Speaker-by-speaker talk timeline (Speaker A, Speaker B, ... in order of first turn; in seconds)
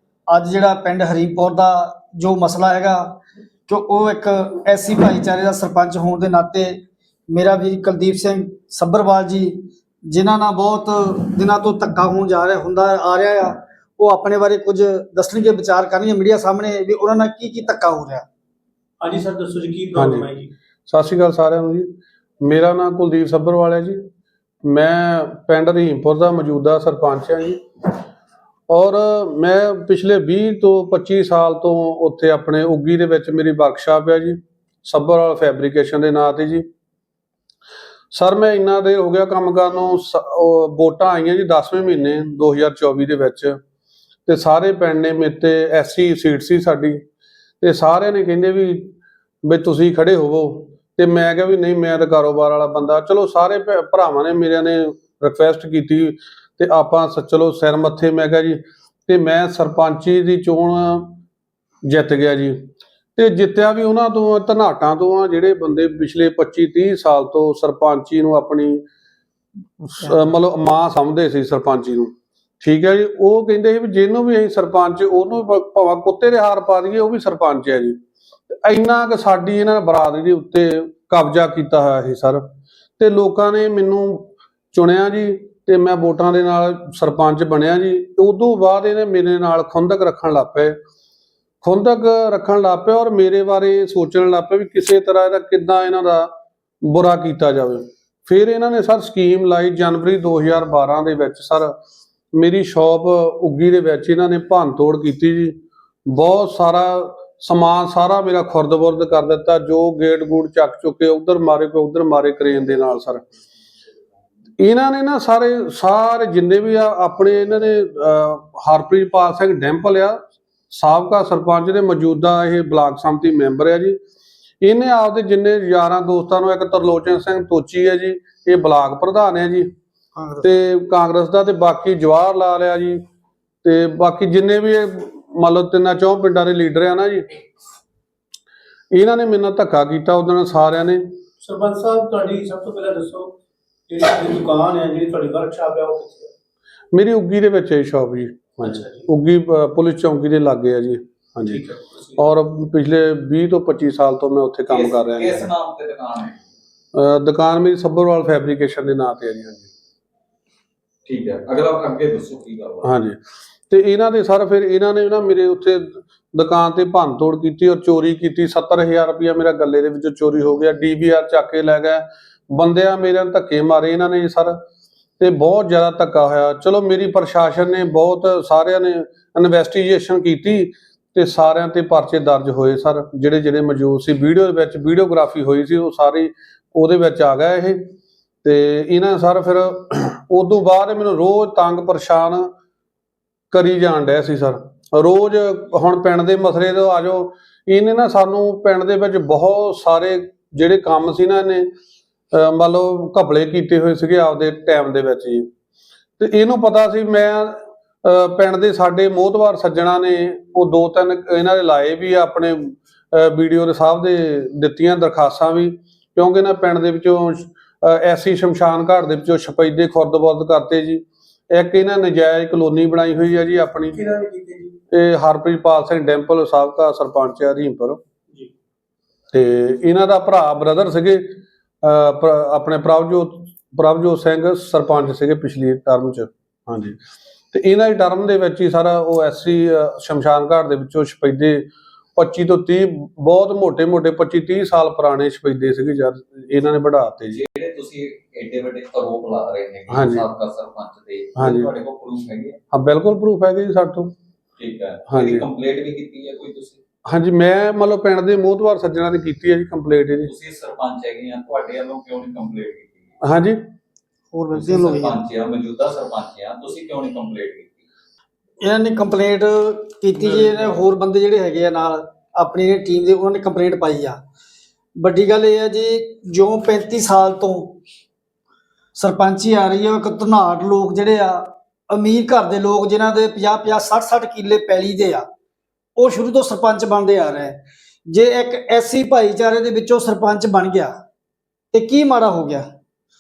Speaker A: 0.3-18.2, 130.2-130.5, 264.3-265.2, 268.6-274.2, 275.0-277.8, 279.0-285.2, 286.0-287.5, 288.1-290.9, 291.7-292.6
Speaker B: 19.0-20.5, 141.4-143.3, 143.9-146.3, 148.6-149.1, 151.4-152.3, 223.9-224.8
Speaker C: 19.9-20.3, 20.9-24.0, 24.7-27.6, 28.7-36.6, 38.1-43.5, 44.3-47.0, 47.6-61.2, 61.9-62.5, 63.1-68.8, 69.8-72.1, 72.6-78.0, 78.6-82.4, 83.0-90.8, 91.6-96.3, 96.8-101.7, 102.3-105.5, 106.1-113.2, 114.6-120.2, 120.7-124.0, 124.6-129.7, 130.4-133.0, 133.6-137.2, 138.9-141.1, 146.9-151.6, 152.2-155.5, 156.9-159.7, 162.8-163.2, 163.7-174.6, 175.2-187.8, 188.4-192.5, 193.5-201.7, 202.3-205.4, 206.2-224.0, 224.9-228.0, 229.3-237.0, 237.5-247.4, 249.9-250.3, 251.4-251.7, 252.7-254.1, 255.1-255.4, 257.1-260.3, 263.2-263.6
Speaker D: 154.7-156.4, 161.1-162.9, 247.3-252.6, 254.6-256.8, 260.2-263.1, 264.5-267.8